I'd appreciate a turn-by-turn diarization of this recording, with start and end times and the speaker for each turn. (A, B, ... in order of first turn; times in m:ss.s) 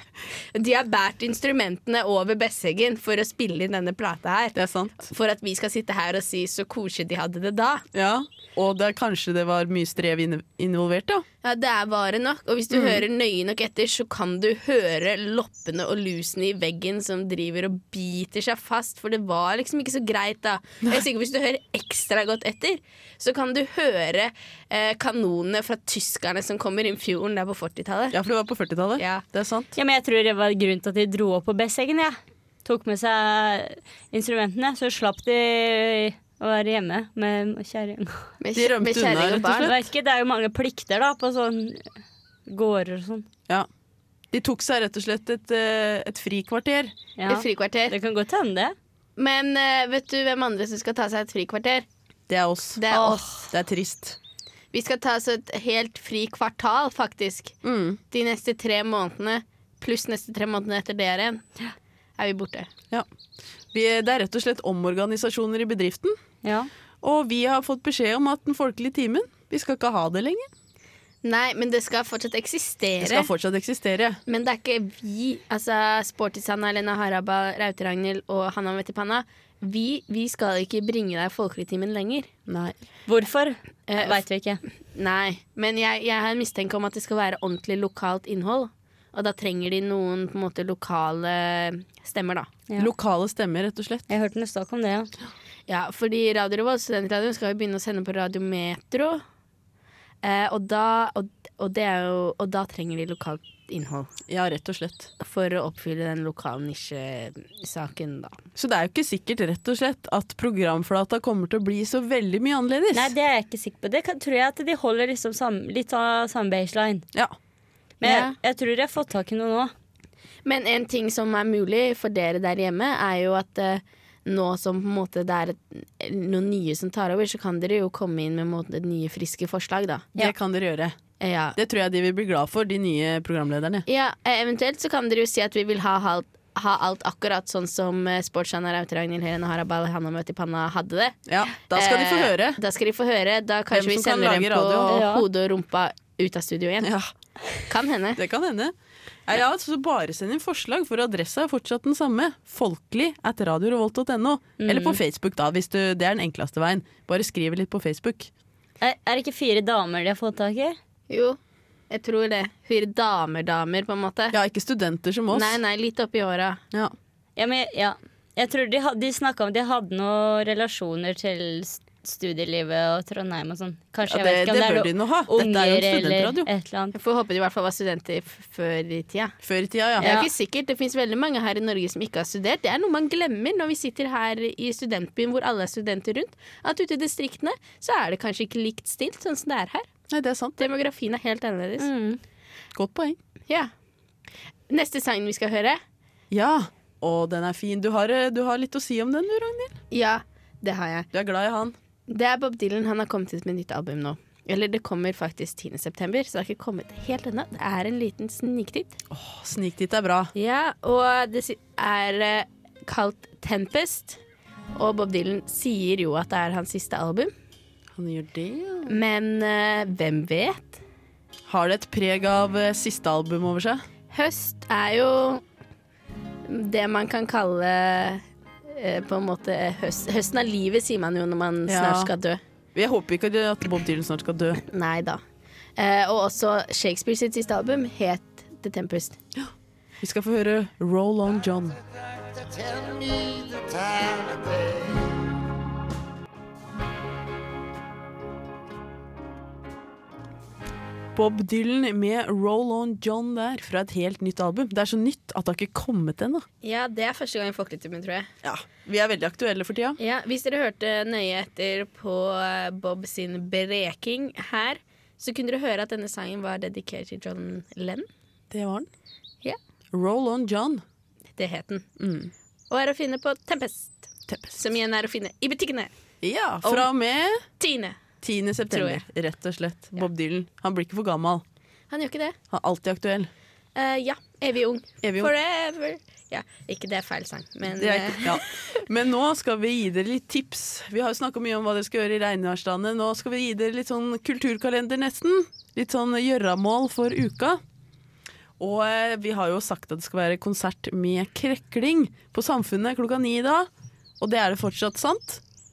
0:00.5-0:07.8 A
0:04.5-0:05.1 B
0:07.9-0:11.2 B
0:11.4-0:28.2 A
0:12.7-0:13.0 B
0:28.1-0:29.7 B
0:29.0-0:29.2 A
0:29.8-0:38.3 C
0:38.4-0:39.7 A
0:38.5-0:39.8 B
0:39.5-0:43.2 C
0:44.3-0:46.9 B
0:47.2-0:48.7 C
0:47.3-0:47.9 A
0:49.2-0:51.8 A
0:52.3-0:52.8 B
0:52.8-0:53.3 A
0:52.9-0:53.4 C
0:53.5-0:54.2 B
0:54.7-0:57.6 A
0:57.6-0:58.0 B
0:58.1-1:01.5 A
1:02.2-1:02.7 A
1:03.7-1:06.2 B
1:06.4-1:06.7 C
1:07.0-1:10.5 B
1:11.2-1:13.3 A
1:13.0-1:14.2 B
1:14.3-1:22.3 A
1:22.5-1:22.7 B
1:23.1-1:24.6 C
1:23.9-1:24.2 A
1:24.9-1:32.5 A
1:32.8-1:34.1 B
1:34.1-1:35.1 C
1:35.7-1:39.2 A
1:40.2-1:44.1 A
1:44.3-1:45.1 B
1:45.2-1:48.4 A
1:48.6-1:53.1 B
1:52.9-1:57.0 C
1:58.0-1:59.7 C
1:58.0-1:58.3 A
2:00.4-2:10.3 A
2:10.2-2:11.0 B
2:11.2-2:11.6 A
2:11.6-2:13.8 B
2:13.9-2:21.2 A
2:21.3-2:22.6 B
2:21.7-2:26.9 A
2:23.7-2:25.0 B
2:24.9-2:25.2 C
2:26.8-2:27.1 B
2:27.7-2:28.2 A
2:28.2-2:28.7 B
2:29.2-2:38.3 B
2:34.6-2:35.0 C
2:38.8-2:40.8 C
2:41.1-2:41.4 A
2:41.9-2:44.4 A
2:44.3-2:45.6 B
2:45.3-2:46.6 A
2:47.4-2:56.9 C
2:54.0-2:56.5 B
2:56.9-2:59.4 A
2:59.4-3:00.1 B
3:00.0-3:09.9 A
3:00.0-3:00.3 C
3:10.1-3:10.6 B
3:10.6-3:11.9 A
3:11.8-3:12.2 C
3:12.7-3:13.2 B
3:14.7-3:15.8 A
3:16.3-3:19.8 B
3:19.9-3:21.1 A
3:21.1-3:21.7 B
3:22.1-3:29.0 A
3:29.1-3:30.3 B
3:30.3-3:34.2 A
3:34.7-3:37.3 A
3:37.9-3:39.0 B
3:38.8-3:40.8 A
3:41.5-3:43.8 B
3:44.1-3:45.4 A
3:46.5-3:52.4 A
3:51.7-3:52.1 B
3:52.7-3:54.6 B
3:54.7-3:55.2 A
3:55.8-3:59.2 A
4:00.0-4:01.8 B
4:11.1-4:16.4 B
4:16.6-4:18.3 A
4:18.4-4:20.0 B
4:20.0-4:28.1 A
4:28.5-4:28.9 B
4:29.9-4:30.8 B
4:31.4-4:31.8 A
4:32.0-4:32.3 B
4:32.7-4:35.9 A
4:34.3-4:34.6 B
4:36.2-4:37.4 B
4:36.6-4:36.9 A
4:37.6-4:38.0 A
4:38.2-4:41.4 B
4:38.7-4:39.0 A
4:41.9-4:42.4 A
4:42.5-4:43.3 B
4:43.8-4:48.4 A
4:45.0-4:45.3 B
4:47.8-4:57.6 B
4:58.6-5:03.7 B
5:04.2-5:05.4 B